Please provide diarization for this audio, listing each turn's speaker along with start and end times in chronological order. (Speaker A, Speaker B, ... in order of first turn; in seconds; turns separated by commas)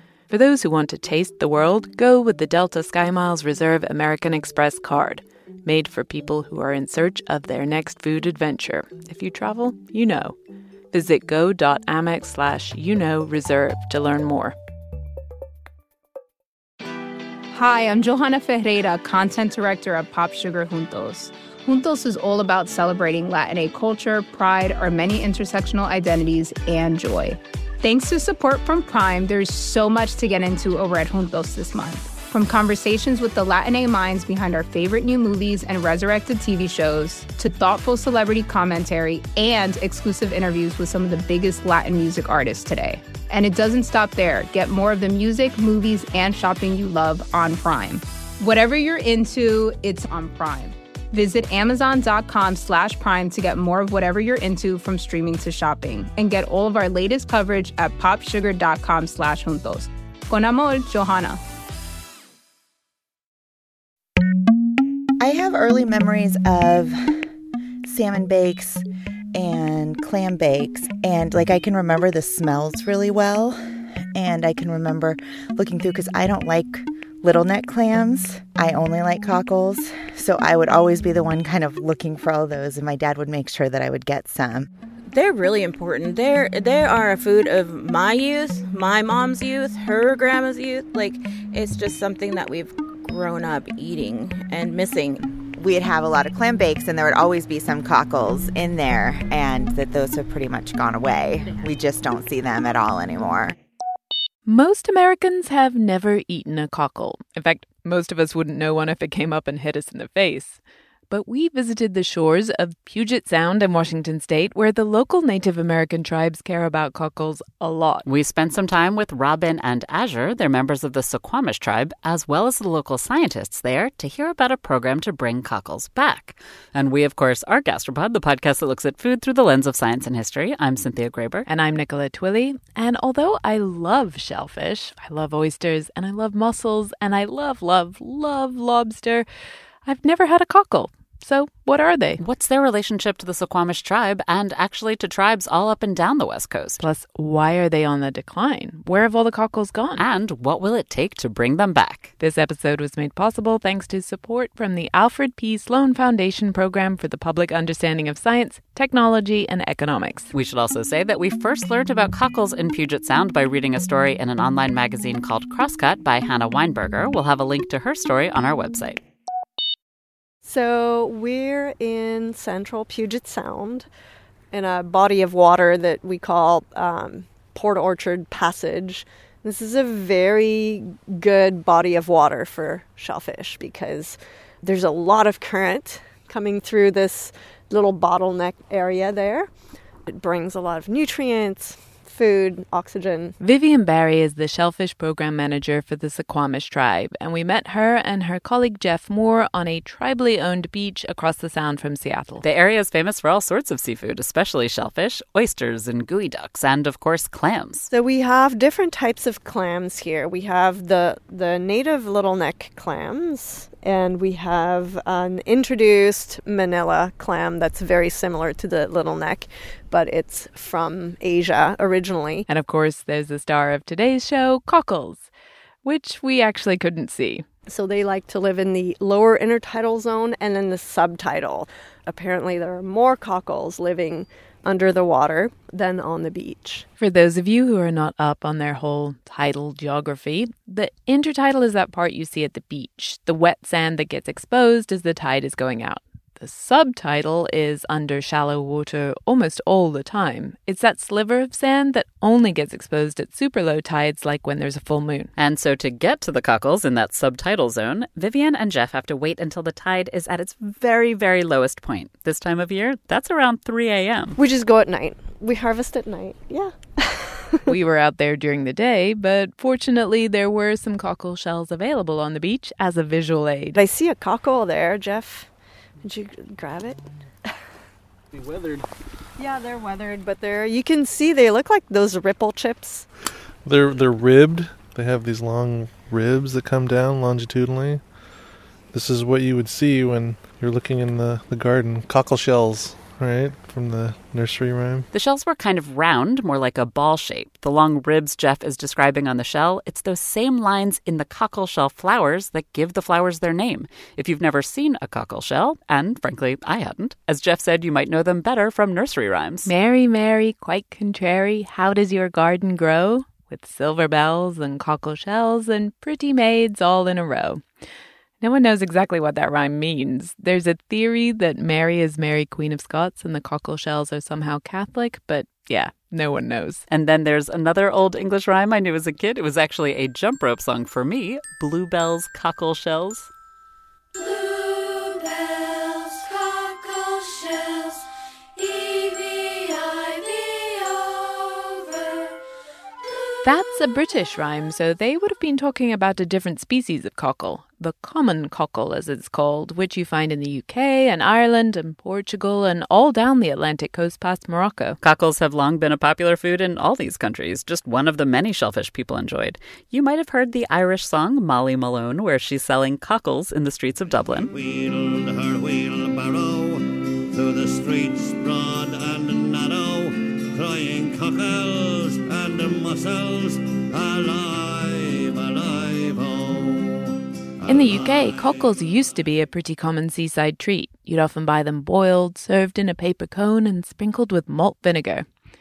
Speaker A: 0.3-10.3, Speaker A: 10.9-14.5, Speaker B: 17.5-61.4, Speaker C: 65.2-67.2, Speaker C: 67.8-84.7, Speaker D: 85.1-95.3, Speaker C: 95.5-103.5, Speaker A: 104.5-110.6, Speaker A: 111.1-118.0, Speaker E: 118.0-131.4, Speaker A: 131.4-139.2, Speaker A: 139.8-142.2, Speaker E: 142.2-146.8, Speaker A: 146.8-150.0, Speaker E: 150.0-152.1, Speaker A: 152.2-160.3, Speaker E: 160.3-169.0, Speaker F: 170.4-173.9, Speaker F: 174.5-189.5, Speaker F: 190.1-193.4, Speaker A: 193.4-202.4, Speaker E: 202.4-207.9, Speaker F: 207.9-222.5, Speaker A: 222.5-225.3, Speaker A: 225.8-227.4, Speaker F: 227.7-236.8, Speaker A: 237.0-255.3, Speaker E: 255.4-264.4, Speaker F: 264.4-267.7, Speaker A: 267.7-273.8, Speaker F: 273.7-275.5, Speaker F: 276.0-277.6, Speaker G: 278.5-278.8, Speaker F: 279.4-283.1, Speaker G: 283.6-288.0, Speaker G: 288.9-295.1, Speaker E: 295.1-309.7, Speaker A: 309.6-317.6, Speaker A: 318.4-326.8, Speaker E: 326.9-333.3, Speaker A: 334.1-338.0, Speaker A: 338.6-342.2, Speaker A: 343.4-355.0, Speaker E: 355.0-364.5, Speaker H: 364.5-378.6, Speaker A: 377.7-385.2